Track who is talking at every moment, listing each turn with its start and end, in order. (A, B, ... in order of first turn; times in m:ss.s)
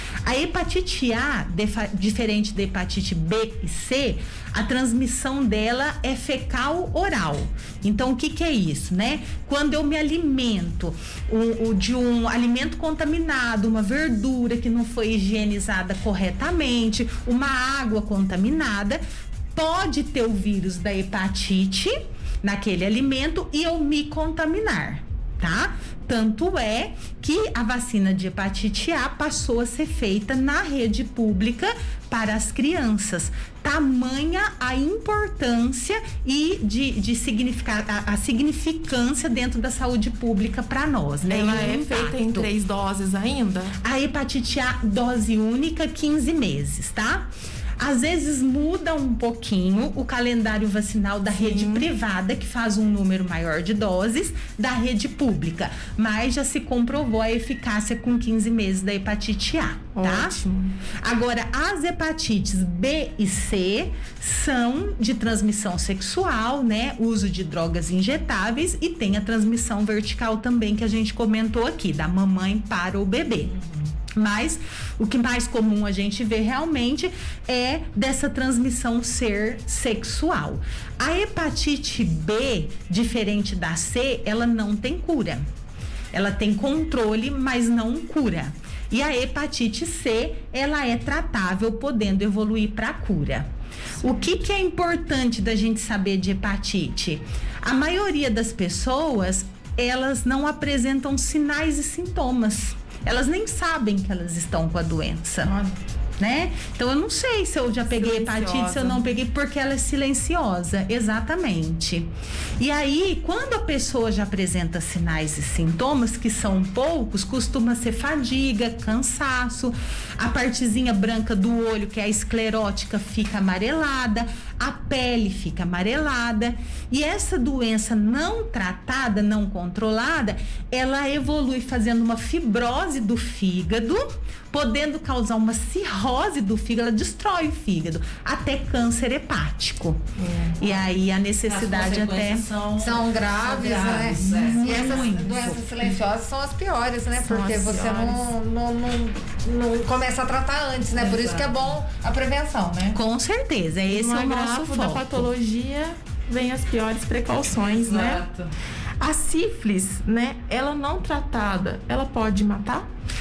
0:00.2-0:19.0 A
0:19.5-0:42.5 A
0:41.2-0:43.8 B
0:43.8-0:47.3 A
0:47.8-1:00.4 A
0:51.4-0:51.8 B
1:00.0-1:00.8 B
1:01.0-1:13.5 A
1:13.4-1:13.9 C
1:14.1-1:25.4 A
1:26.1-1:33.5 A
1:34.0-1:45.6 A
1:46.2-2:20.0 A
1:47.9-1:49.0 B
2:20.2-2:20.6 B
2:20.6-2:22.5 A
2:21.5-2:25.2 C
2:22.8-2:33.0 D
2:24.1-2:25.6 A
2:27.2-2:28.3 B
2:30.9-2:31.8 C
2:32.9-2:35.3 A
2:33.9-2:38.2 B
2:37.6-2:38.5 C
2:39.0-2:42.9 B